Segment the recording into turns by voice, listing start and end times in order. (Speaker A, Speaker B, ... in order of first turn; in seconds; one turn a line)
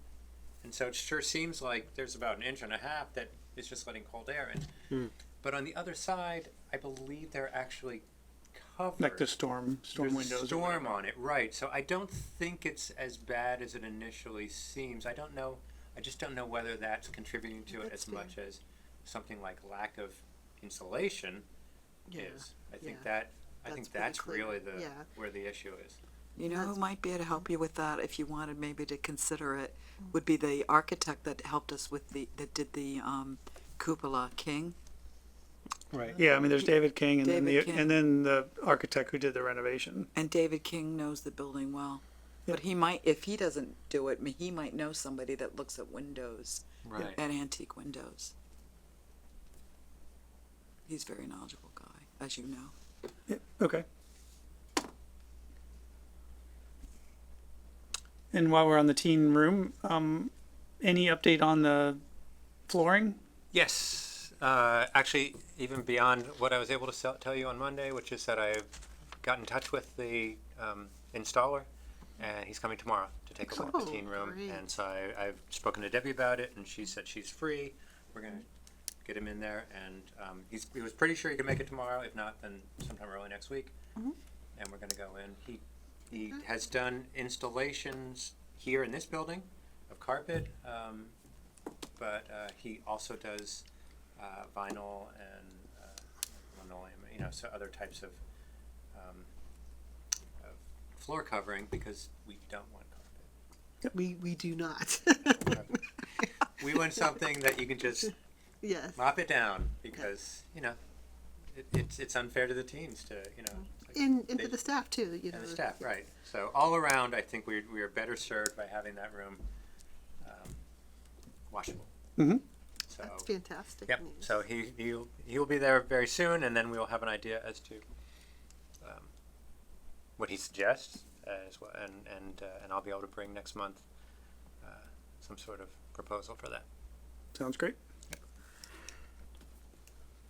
Speaker A: 0.6-8.0
Speaker A: 8.6-9.2
Speaker B: 9.0-11.0
Speaker A: 9.9-21.4
Speaker C: 17.7-18.3
Speaker C: 22.1-23.1
Speaker A: 22.1-26.0
Speaker C: 23.7-25.1
Speaker D: 26.4-34.8
Speaker C: 26.5-26.8
Speaker A: 35.9-36.2
Speaker B: 36.2-40.1
Speaker D: 37.2-38.0
Speaker D: 40.1-48.3
Speaker A: 46.8-47.2
Speaker D: 50.9-52.7
Speaker B: 53.3-53.9
Speaker B: 58.3-62.0
Speaker B: 62.7-63.2
Speaker A: 63.5-78.5
Speaker C: 73.5-74.6
Speaker A: 79.0-83.7
Speaker A: 84.6-91.1
Speaker A: 92.0-93.7
Speaker A: 94.2-98.2
Speaker A: 98.9-99.3
Speaker A: 100.4-103.3
Speaker C: 103.9-105.7
Speaker A: 105.2-105.8
Speaker A: 106.4-108.2
Speaker C: 108.6-109.0
Speaker A: 109.0-110.8
Speaker A: 111.5-114.6
Speaker C: 113.9-115.7
Speaker A: 115.3-119.5
Speaker A: 120.2-120.6
Speaker A: 121.5-121.9
Speaker B: 122.2-122.4
Speaker A: 122.9-123.3
Speaker C: 123.0-124.3
Speaker A: 123.9-127.8
Speaker A: 128.8-129.1
Speaker A: 130.2-133.8
Speaker A: 134.6-136.7
Speaker B: 137.3-137.8